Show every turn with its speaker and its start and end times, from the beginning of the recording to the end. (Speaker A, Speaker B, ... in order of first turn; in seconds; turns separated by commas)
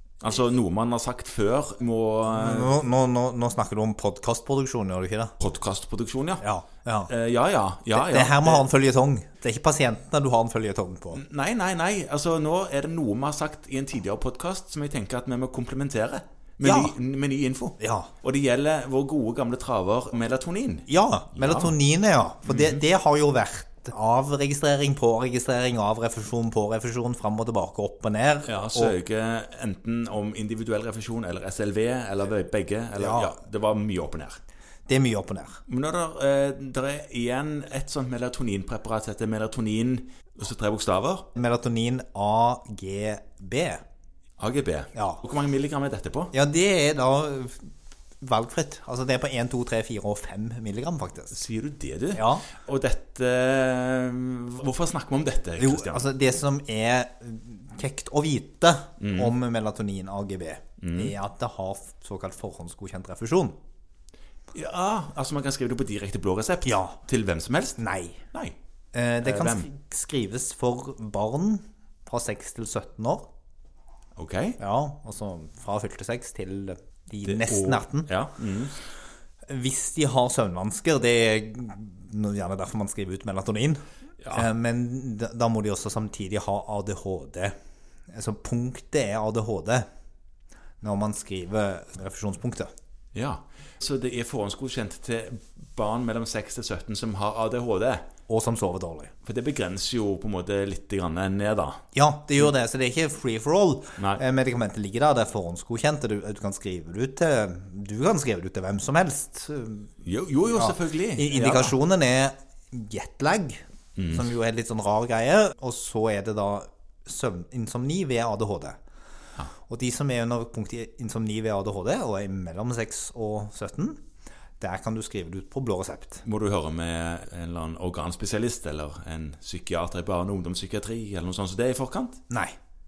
Speaker A: 0.2-2.8, Speaker B: 2.3-5.3, Speaker A: 5.4-6.4, Speaker B: 6.4-7.1, Speaker A: 7.1-8.6, Speaker B: 7.9-11.2, Speaker A: 11.1-21.7, Speaker B: 16.6-16.9, Speaker B: 17.8-18.1, Speaker B: 20.9-29.0, Speaker A: 22.5-22.8, Speaker A: 28.4-34.4, Speaker B: 33.0-33.4, Speaker B: 34.9-35.6, Speaker A: 35.7-41.3, Speaker B: 41.4-43.8, Speaker A: 44.4-46.3, Speaker B: 45.0-45.2, Speaker B: 46.3-47.7, Speaker B: 48.2-51.4, Speaker A: 51.3-56.0, Speaker B: 52.1-52.5, Speaker B: 55.6-63.6, Speaker A: 59.0-59.3, Speaker A: 60.8-61.1, Speaker A: 64.5-67.8, Speaker B: 66.7-67.0, Speaker B: 67.8-68.2, Speaker B: 68.9-73.3, Speaker A: 69.2-69.7, Speaker A: 74.2-74.6, Speaker B: 74.6-78.1, Speaker A: 77.2-78.8, Speaker B: 79.5-87.5, Speaker A: 84.2-84.5, Speaker B: 88.1-89.9, Speaker B: 90.8-92.7, Speaker A: 93.1-98.0, Speaker B: 98.3-99.1, Speaker A: 99.2-101.8, Speaker B: 101.9-109.9, Speaker A: 110.0-111.7, Speaker B: 110.5-118.8, Speaker A: 114.0-114.2, Speaker B: 119.7-124.0, Speaker B: 124.6-126.2, Speaker A: 126.2-132.2, Speaker B: 132.3-132.6